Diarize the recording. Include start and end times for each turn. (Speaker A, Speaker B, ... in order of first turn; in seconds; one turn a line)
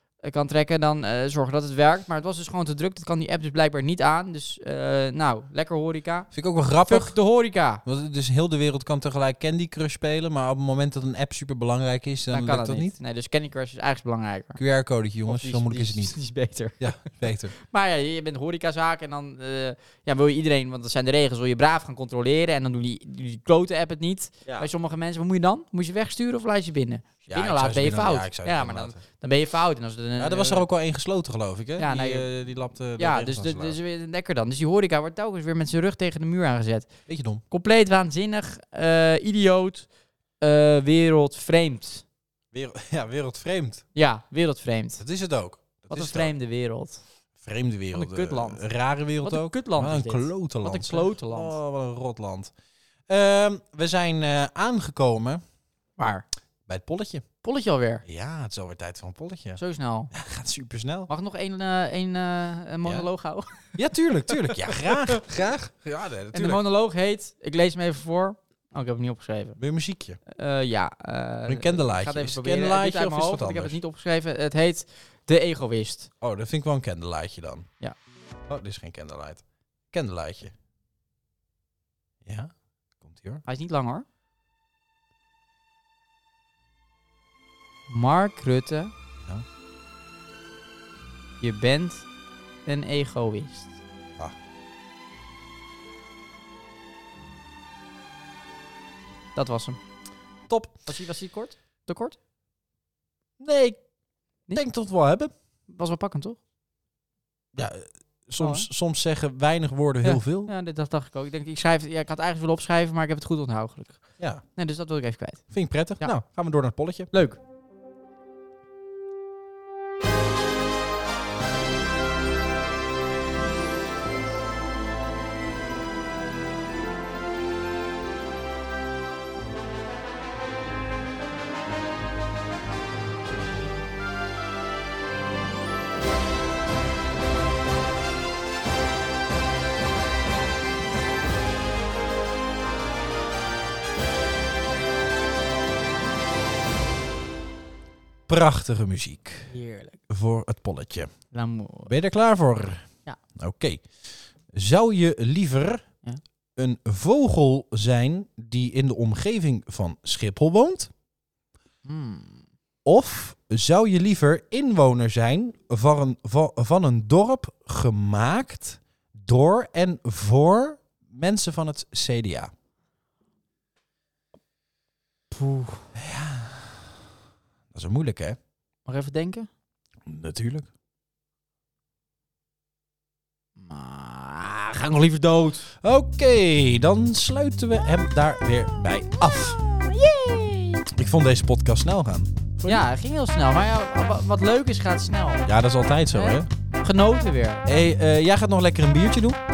Speaker A: 0.2-6.3
Speaker B: 6.3-7.2
Speaker A: 6.8-7.8
Speaker B: 7.8-12.9
Speaker A: 12.3-14.6
Speaker B: 14.6-16.2
Speaker A: 15.3-30.7
Speaker B: 16.8-17.5
Speaker B: 27.3-29.0
Speaker B: 30.2-33.8
Speaker A: 31.8-32.3
Speaker A: 33.0-36.9
Speaker B: 37.1-37.4
Speaker A: 37.5-39.9
Speaker A: 40.4-42.0
Speaker B: 42.5-43.9
Speaker A: 44.0-45.0
Speaker B: 45.0-46.3
Speaker A: 45.9-47.0
Speaker B: 47.4-52.5
Speaker A: 47.9-48.7
Speaker A: 49.2-51.6
Speaker B: 53.1-55.4
Speaker A: 56.0-56.2
Speaker B: 56.7-57.3
Speaker A: 57.4-58.0
Speaker B: 58.0-59.6
Speaker A: 59.6-60.1
Speaker B: 60.1-61.1
Speaker A: 61.1-63.8
Speaker B: 63.8-66.6
Speaker A: 64.3-65.2
Speaker A: 66.3-69.6
Speaker B: 69.6-70.2
Speaker A: 70.3-76.1
Speaker B: 71.5-73.8
Speaker B: 76.2-77.7
Speaker B: 78.5-80.5
Speaker B: 82.2-83.4
Speaker A: 83.5-84.0
Speaker A: 87.9-88.9
Speaker A: 91.4-92.1
Speaker A: 92.7-93.8
Speaker A: 99.4-99.8
Speaker B: 100.5-100.8
Speaker A: 100.9-102.2
Speaker B: 103.4-103.8
Speaker B: 104.5-105.3
Speaker A: 105.7-106.4
Speaker B: 107.5-110.5
Speaker A: 108.4-108.7
Speaker A: 110.0-116.2
Speaker B: 115.5-117.1
Speaker A: 117.1-117.4
Speaker B: 148.3-149.5
Speaker A: 149.5-150.0
Speaker B: 150.1-151.1
Speaker A: 151.3-151.9
Speaker B: 151.9-155.9
Speaker B: 156.6-160.9
Speaker A: 161.8-162.4
Speaker B: 162.8-172.5
Speaker A: 175.3-175.9
Speaker B: 175.9-177.0
Speaker B: 177.7-178.4
Speaker A: 178.9-179.5
Speaker B: 180.1-180.7
Speaker A: 183.6-185.7
Speaker B: 185.8-189.6
Speaker A: 189.3-190.9
Speaker B: 190.9-192.9
Speaker A: 192.7-195.5
Speaker B: 195.5-196.5
Speaker A: 196.1-197.7
Speaker B: 197.7-199.4